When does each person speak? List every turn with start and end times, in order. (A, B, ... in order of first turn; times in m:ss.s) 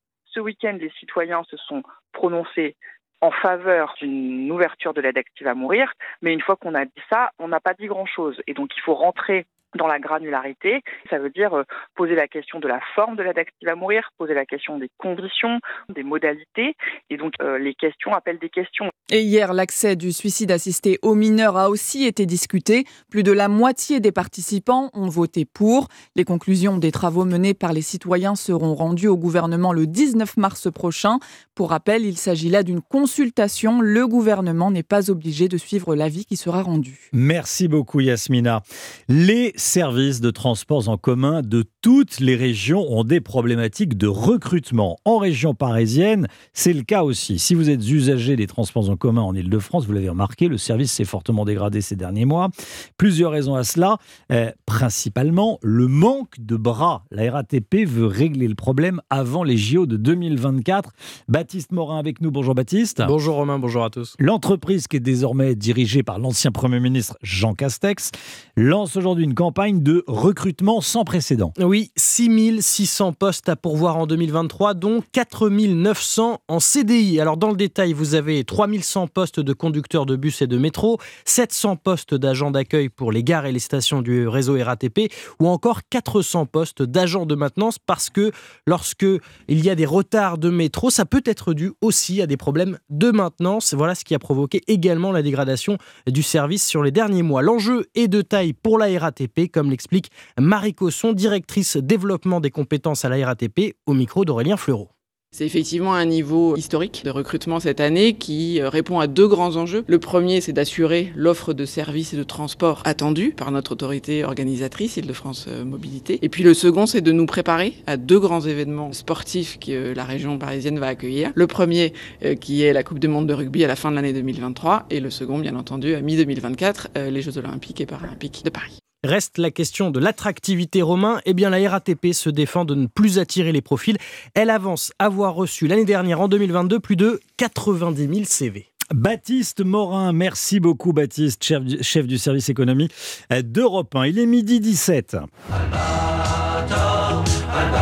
0:00.3-0:18.9 A
0:19.1-0:37.1 B
0:37.1-1:03.1 C
1:03.0-1:04.1 D
1:04.2-1:11.5 C
1:11.6-1:44.9 D
1:45.3-2:08.8 E
2:09.0-2:18.7 D
2:18.9-2:25.2 C